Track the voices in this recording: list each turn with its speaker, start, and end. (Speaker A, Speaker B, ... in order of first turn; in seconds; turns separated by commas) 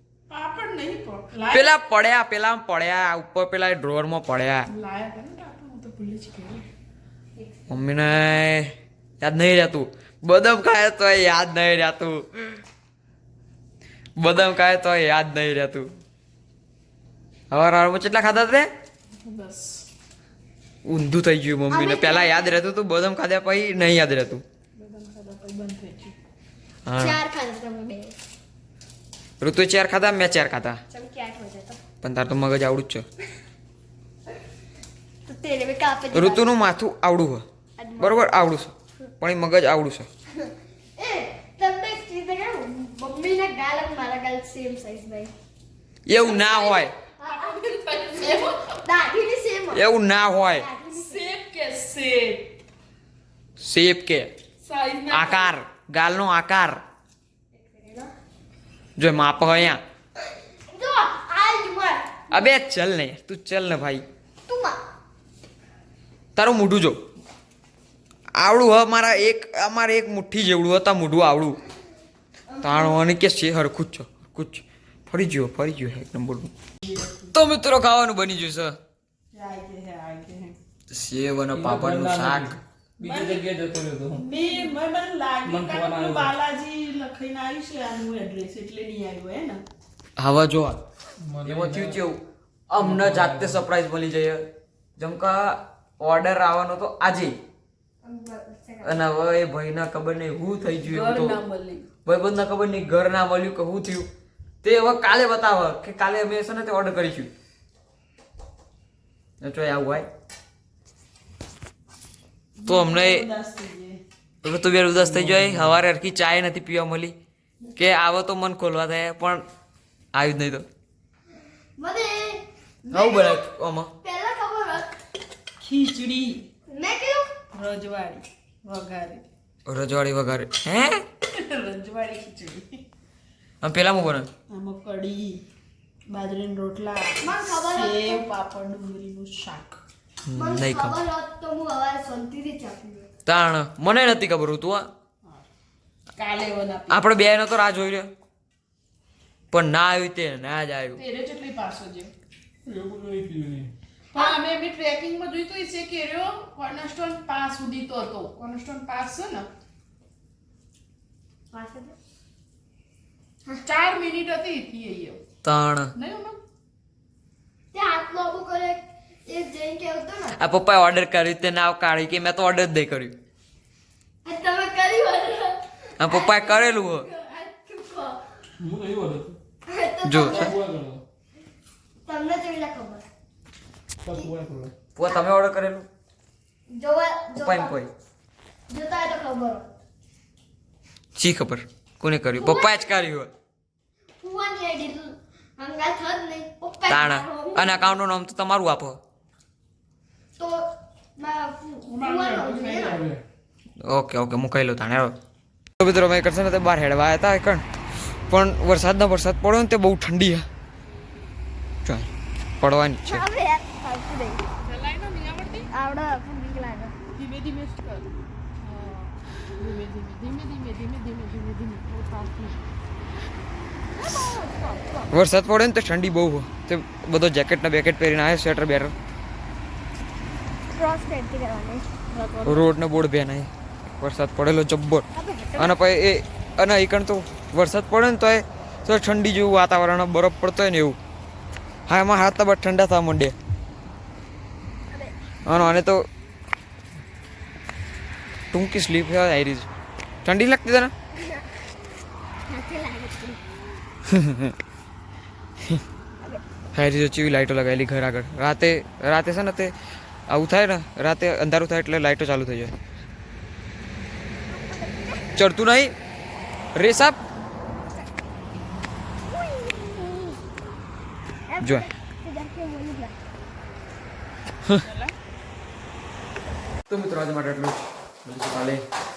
Speaker A: 0.3-1.7, Speaker B: 1.5-4.7, Speaker A: 4.7-6.7, Speaker C: 7.3-7.8, Speaker B: 7.7-12.6, Speaker B: 14.2-15.9, Speaker B: 17.5-18.7, Speaker A: 19.2-19.9, Speaker B: 20.9-24.4, Speaker C: 21.7-22.6, Speaker A: 24.8-26.1, Speaker B: 26.9-27.2, Speaker C: 26.9-28.1, Speaker B: 29.4-30.8, Speaker C: 30.9-31.8, Speaker B: 32.0-33.0, Speaker C: 35.2-36.6, Speaker B: 36.1-37.4, Speaker C: 37.8-38.3, Speaker B: 38.0-40.1, Speaker C: 40.4-45.3, Speaker B: 46.0-46.9, Speaker C: 46.2-49.8, Speaker A: 47.2-48.8, Speaker B: 49.7-50.6, Speaker C: 50.6-51.3, Speaker A: 50.9-52.5, Speaker B: 53.6-54.3, Speaker A: 54.6-55.5, Speaker B: 55.1-56.8, Speaker C: 57.5-58.1, Speaker B: 59.0-59.8, Speaker C: 60.7-62.5, Speaker B: 62.3-64.0, Speaker C: 64.5-64.8, Speaker B: 66.3-67.0, Speaker B: 68.4-71.6, Speaker C: 72.5-73.0, Speaker B: 72.6-76.5, Speaker A: 76.8-77.3, Speaker B: 77.3-78.8, Speaker A: 79.3-80.6, Speaker B: 80.9-82.5, Speaker D: 81.5-84.3, Speaker A: 83.0-83.4, Speaker A: 84.1-89.6, Speaker D: 85.4-86.3, Speaker B: 90.2-90.8, Speaker D: 91.2-92.0, Speaker B: 91.4-94.5, Speaker D: 92.8-93.6, Speaker B: 95.0-97.3, Speaker C: 98.0-99.0, Speaker B: 98.8-101.4, Speaker A: 100.8-101.9, Speaker B: 102.0-104.1, Speaker B: 104.6-107.3, Speaker B: 109.4-110.1, Speaker A: 112.6-114.0, Speaker B: 112.7-113.2, Speaker B: 114.4-117.1, Speaker D: 115.0-115.8, Speaker B: 117.7-119.4, Speaker B: 120.1-120.6, Speaker C: 121.8-123.5, Speaker B: 122.9-123.9, Speaker C: 124.0-125.0, Speaker A: 125.6-126.5, Speaker C: 126.7-127.3, Speaker A: 127.5-129.2, Speaker B: 129.7-131.0, Speaker A: 131.3-132.8, Speaker B: 133.6-134.3, Speaker A: 134.5-135.4, Speaker A: 136.1-139.8, Speaker C: 137.2-138.2, Speaker B: 140.3-141.0, Speaker C: 140.3-143.1, Speaker B: 143.2-144.9, Speaker A: 146.2-147.1, Speaker B: 146.9-148.1, Speaker B: 149.5-151.0, Speaker A: 150.9-152.1, Speaker D: 152.7-153.7, Speaker A: 154.1-159.5, Speaker C: 161.5-161.9, Speaker A: 163.6-165.2, Speaker B: 165.4-165.9, Speaker A: 165.9-166.4, Speaker C: 167.7-170.4, Speaker B: 170.3-173.2, Speaker C: 174.2-178.2, Speaker B: 176.0-177.1, Speaker D: 178.6-179.4, Speaker C: 179.7-180.6, Speaker B: 180.0-180.5, Speaker D: 180.1-181.0, Speaker C: 182.1-183.0, Speaker D: 184.0-184.7, Speaker B: 184.9-185.9, Speaker C: 186.7-187.7, Speaker B: 187.4-187.9, Speaker C: 188.7-189.7, Speaker B: 191.2-193.3, Speaker C: 192.3-192.9, Speaker C: 194.2-198.0, Speaker B: 196.9-199.0, Speaker C: 200.4-203.1, Speaker A: 201.8-203.2, Speaker B: 203.8-205.1, Speaker B: 205.8-207.6, Speaker B: 208.3-210.4, Speaker B: 212.6-213.2, Speaker C: 213.0-214.4, Speaker A: 214.6-215.7, Speaker C: 215.7-216.9, Speaker A: 217.1-218.1, Speaker A: 218.6-222.6, Speaker A: 224.0-225.1, Speaker C: 224.1-224.3, Speaker B: 225.1-228.9, Speaker C: 230.7-231.9, Speaker A: 232.1-232.7, Speaker B: 232.4-235.1, Speaker C: 235.1-235.8, Speaker B: 235.6-241.0, Speaker B: 241.9-243.3, Speaker B: 245.4-246.0, Speaker B: 248.5-249.7, Speaker B: 250.2-250.9, Speaker C: 251.2-251.5, Speaker C: 252.4-253.4, Speaker B: 254.1-254.5, Speaker B: 256.7-259.7, Speaker B: 260.3-262.7, Speaker C: 264.5-265.2, Speaker B: 265.4-265.9, Speaker B: 266.7-267.2, Speaker C: 269.3-270.4, Speaker C: 271.5-273.1, Speaker B: 271.6-271.9, Speaker A: 274.8-275.1, Speaker B: 276.9-278.8